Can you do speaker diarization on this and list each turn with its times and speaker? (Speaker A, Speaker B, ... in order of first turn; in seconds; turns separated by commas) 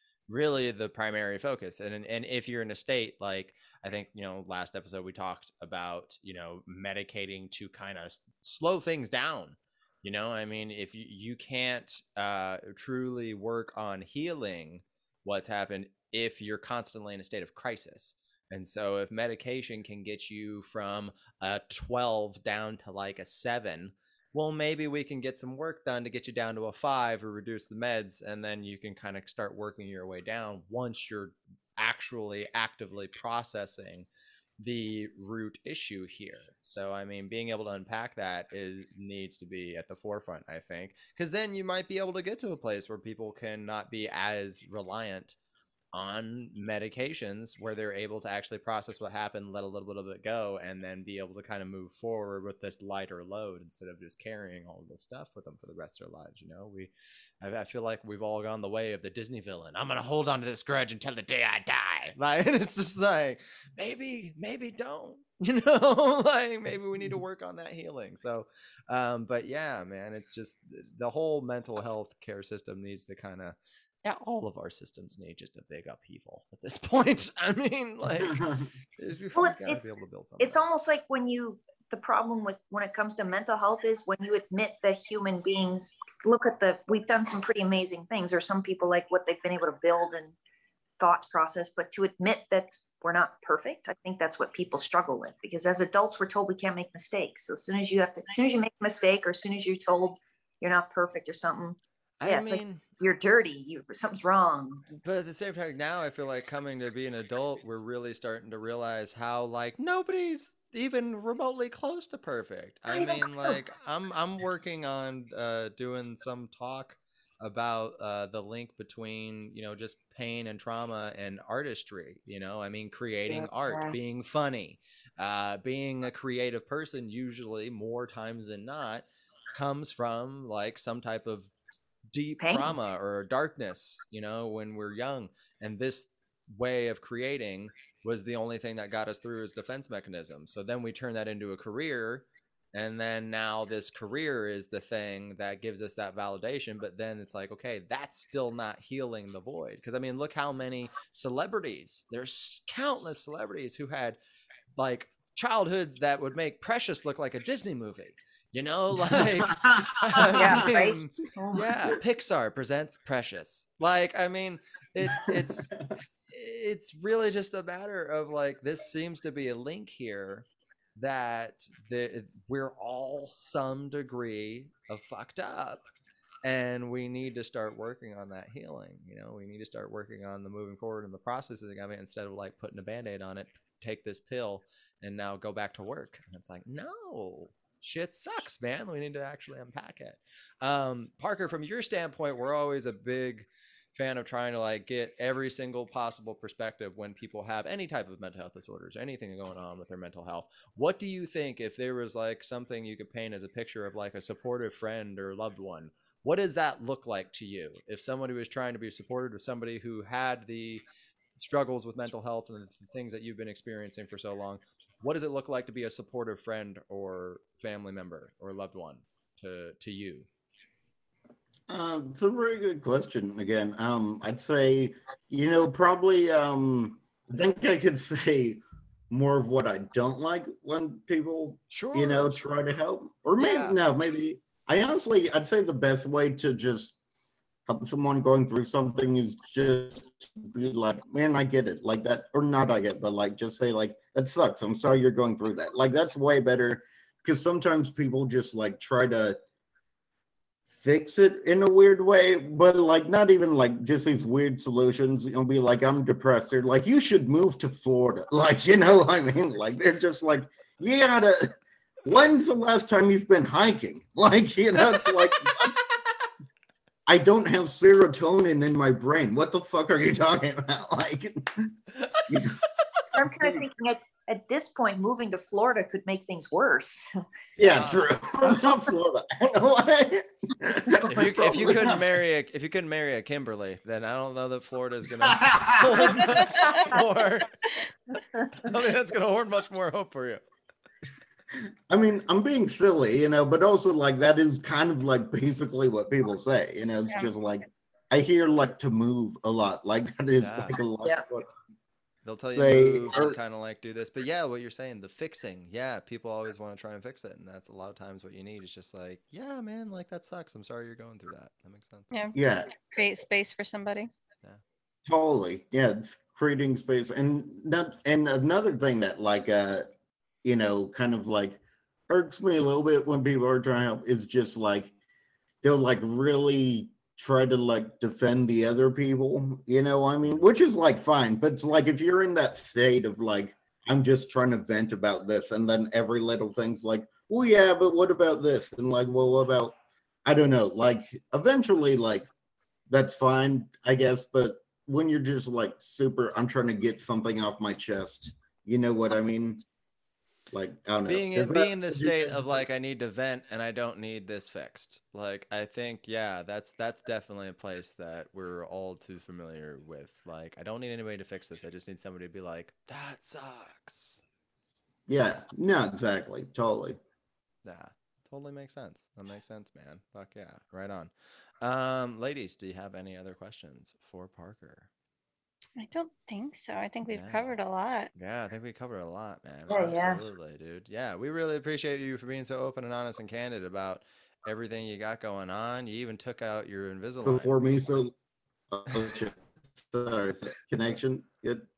Speaker A: 0.3-34.1, Speaker A: 34.6-45.4, Speaker A: 45.9-78.5, Speaker B: 78.2-78.7, Speaker A: 79.0-80.6, Speaker C: 79.3-79.8, Speaker C: 80.4-90.3, Speaker C: 91.0-104.9, Speaker A: 102.2-102.8, Speaker A: 105.0-131.5, Speaker C: 112.9-113.8, Speaker C: 123.3-124.0, Speaker A: 132.1-154.2, Speaker C: 132.4-132.7, Speaker A: 154.7-165.7, Speaker B: 159.1-160.5, Speaker C: 160.3-161.7, Speaker B: 165.1-165.8, Speaker A: 166.3-175.9, Speaker A: 176.4-210.8, Speaker A: 211.4-220.3, Speaker B: 221.7-236.9, Speaker A: 231.7-232.4, Speaker A: 233.4-233.8, Speaker B: 237.7-249.4, Speaker B: 250.8-265.8, Speaker B: 267.1-271.8, Speaker B: 272.3-272.6, Speaker C: 273.1-277.1, Speaker B: 273.2-273.6, Speaker B: 277.6-282.1, Speaker A: 277.6-278.1, Speaker A: 281.0-287.6, Speaker B: 285.2-286.1, Speaker A: 288.5-290.4, Speaker B: 291.5-301.5, Speaker A: 300.4-300.8, Speaker A: 302.2-312.1, Speaker B: 302.4-303.4, Speaker D: 312.1-314.1, Speaker B: 312.3-312.8, Speaker B: 315.0-319.9, Speaker B: 320.4-324.9, Speaker B: 325.6-339.7, Speaker B: 340.2-342.3, Speaker B: 342.9-349.6, Speaker B: 350.5-352.6, Speaker A: 351.1-364.2, Speaker B: 365.1-367.0, Speaker A: 367.6-374.9, Speaker D: 375.8-378.1, Speaker A: 377.1-377.5, Speaker A: 378.1-387.5, Speaker C: 379.7-380.2, Speaker B: 387.2-388.1, Speaker B: 388.7-391.7